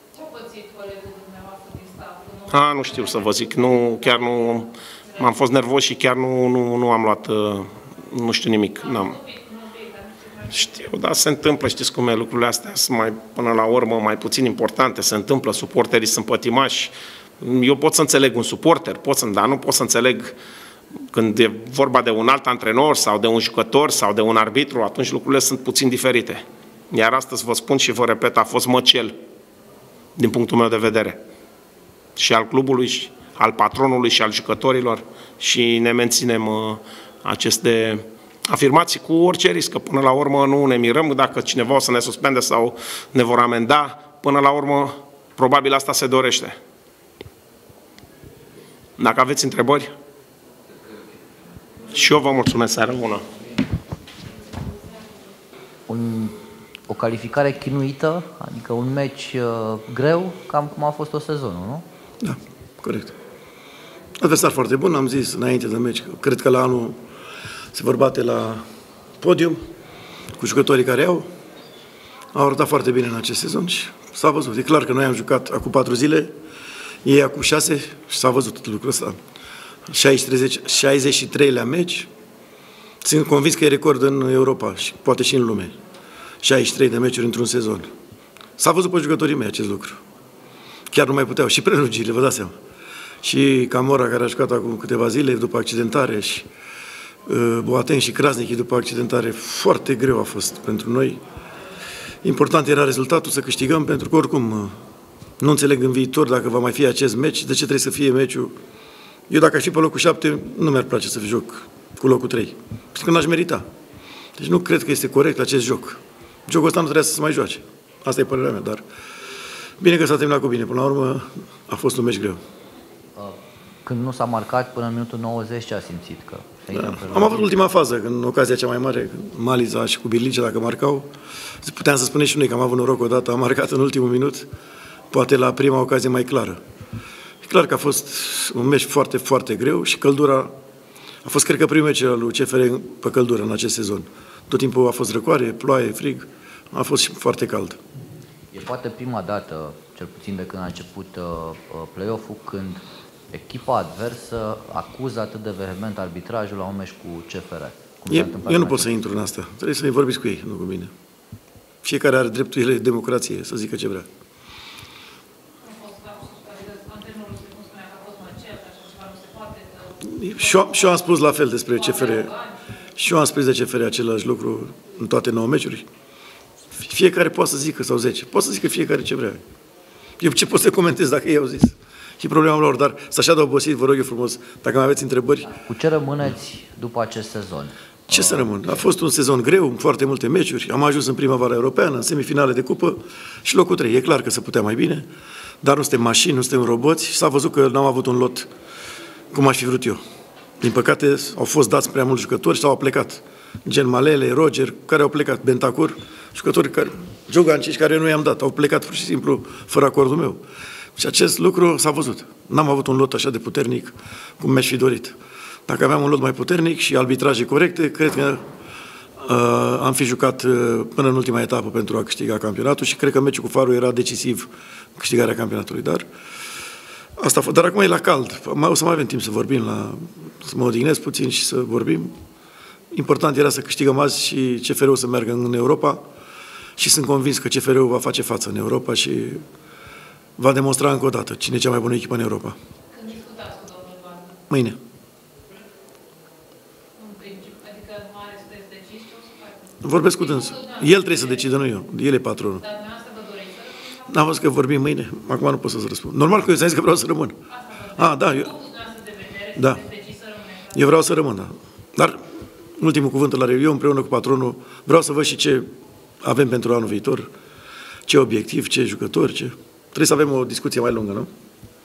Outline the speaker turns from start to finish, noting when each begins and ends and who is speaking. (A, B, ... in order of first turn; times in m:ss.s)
0:00.1-0:02.6 A
0:02.5-0:09.2 B
0:08.8-0:10.5 A
0:10.5-0:20.3 B
0:21.1-0:29.1 B
0:30.2-0:31.2 B
0:32.2-0:46.6 B
0:49.0-0:49.9 B
0:51.9-0:53.2 B
0:55.9-0:56.3 C
0:56.9-1:01.8 C
1:02.2-1:03.1 D
1:04.2-1:07.0 D
1:07.7-1:08.6 D
1:09.2-1:09.6 D
1:10.4-1:11.3 D
1:12.3-1:16.3 D
1:17.0-1:19.2 D
1:19.9-1:22.1 D
1:23.0-1:25.7 D
1:26.4-1:27.9 D
1:28.6-1:30.0 D
1:30.9-1:32.6 D
1:33.2-1:36.5 D
1:37.2-1:41.2 D
1:42.2-1:44.8 D
1:45.4-1:48.5 D
1:49.3-1:53.6 D
1:54.4-1:58.8 D
1:59.8-2:02.4 D
2:03.2-2:07.5 C
2:06.7-2:11.1 D
2:11.6-2:14.5 D
2:15.1-2:16.6 D
2:17.4-2:20.5 D
2:21.2-2:27.8 D
2:28.5-2:38.9 C
2:38.1-2:40.9 D
2:41.8-2:44.1 D
2:45.7-2:49.7 A
2:50.0-2:52.3 D
2:51.8-2:52.4 A
2:53.0-2:55.9 D
2:56.8-2:59.4 D
3:00.2-3:05.5 D
3:05.4-3:08.6 C
3:08.1-3:15.1 D
3:15.6-3:18.5 D
3:19.3-3:20.0 D
3:20.6-3:30.4 D
3:31.0-3:38.4 D
3:39.2-3:46.0 D
3:47.2-3:52.2 D
3:52.9-3:56.0 D
3:56.8-3:59.4 D
4:00.4-4:02.6 D
4:02.9-4:04.3 A
4:04.5-4:04.8 D
4:07.0-4:09.6 A
4:09.8-4:12.6 D
4:10.2-4:10.9 A
4:12.6-4:14.0 A
4:14.1-4:17.4 D
4:17.5-4:20.6 A
4:17.9-4:18.5 D
4:19.5-4:19.8 D
4:20.7-4:22.2 D
4:22.8-4:25.7 D
4:26.2-4:27.3 D
4:28.1-4:31.3 D